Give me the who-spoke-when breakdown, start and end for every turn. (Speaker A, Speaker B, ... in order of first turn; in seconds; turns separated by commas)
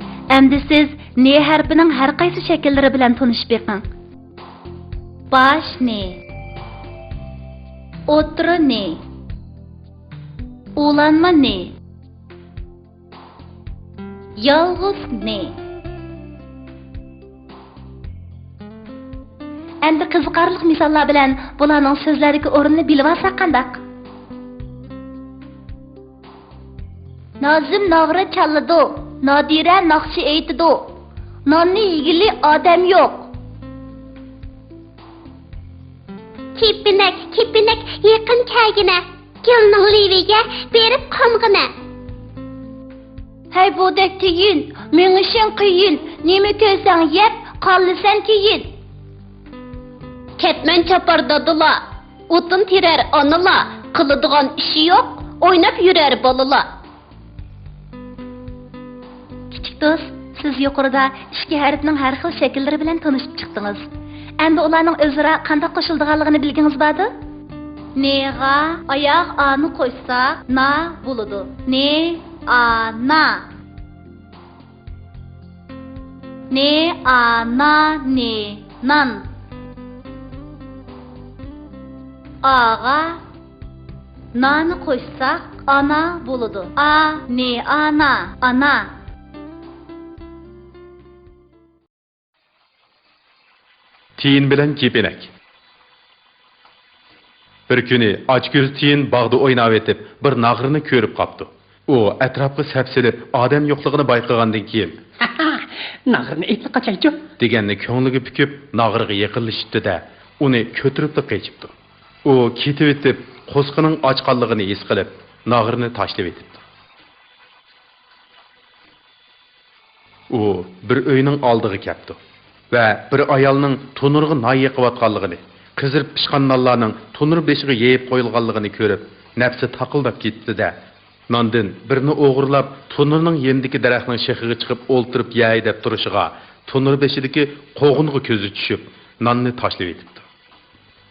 Speaker A: 0.3-3.8, Speaker A: 5.3-6.2, Speaker A: 8.1-9.0, Speaker A: 10.8-11.7, Speaker A: 14.4-15.6, Speaker A: 19.8-23.8, Speaker A: 27.4-30.9, Speaker A: 31.4-33.3, Speaker B: 36.5-41.7, Speaker A: 43.5-48.7, Speaker B: 50.4-56.6, Speaker A: 59.5-63.8, Speaker A: 64.4-67.1, Speaker A: 67.9-73.4, Speaker A: 76.5-79.2, Speaker A: 82.4-83.2, Speaker A: 84.3-88.9, Speaker C: 94.2-95.3, Speaker C: 97.7-105.0, Speaker D: 105.2-107.2, Speaker C: 107.4-111.7, Speaker C: 112.2-116.6, Speaker C: 120.3-122.2, Speaker C: 122.7-130.7, Speaker C: 131.3-140.2